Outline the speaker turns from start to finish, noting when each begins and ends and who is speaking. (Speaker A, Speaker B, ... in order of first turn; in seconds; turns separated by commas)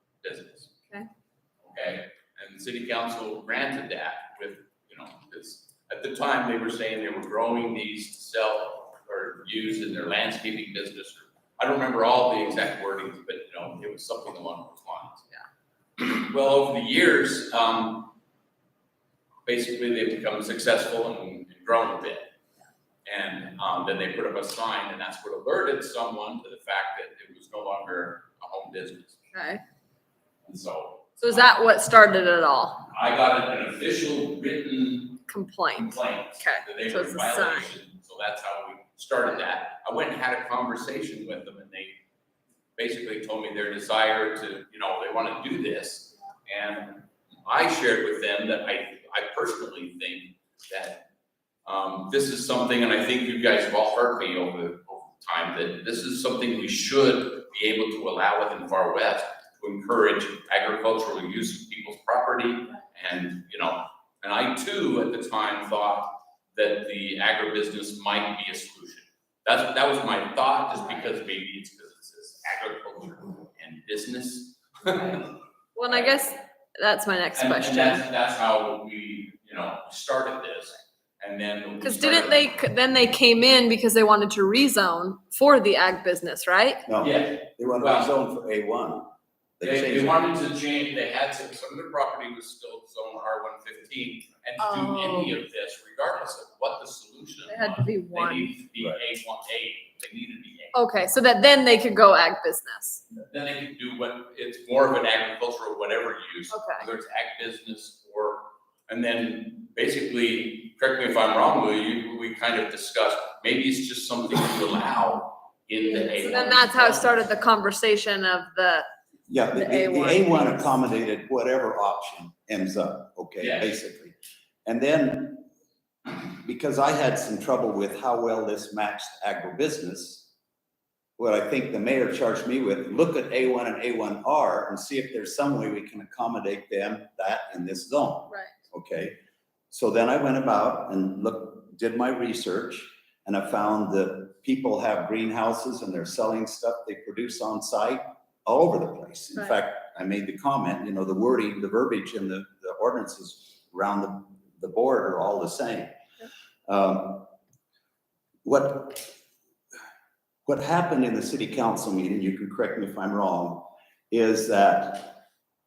Speaker A: 0.2-0.7, Speaker A: 1.6-15.2, Speaker A: 16.0-18.1, Speaker A: 19.4-22.3, Speaker A: 23.0-29.1, Speaker B: 29.3-29.6, Speaker A: 30.4-31.6, Speaker B: 31.2-32.9, Speaker A: 32.9-35.2, Speaker B: 35.3-37.7, Speaker A: 35.7-42.0, Speaker A: 42.8-51.0, Speaker A: 51.6-75.3, Speaker B: 75.8-78.0, Speaker A: 75.8-76.4, Speaker A: 77.3-82.5, Speaker B: 81.8-86.8, Speaker C: 86.9-90.2, Speaker A: 87.0-88.1, Speaker A: 89.6-100.8, Speaker B: 94.6-95.3, Speaker B: 97.5-98.5, Speaker B: 100.7-103.0, Speaker A: 103.2-117.1, Speaker B: 106.5-106.8, Speaker B: 115.8-118.9, Speaker C: 119.3-125.5, Speaker B: 119.5-120.6, Speaker A: 123.4-123.8, Speaker C: 126.3-130.3, Speaker C: 131.2-139.2, Speaker B: 138.3-138.5, Speaker C: 139.7-155.9, Speaker C: 156.7-157.3, Speaker C: 158.4-159.1, Speaker C: 160.4-165.2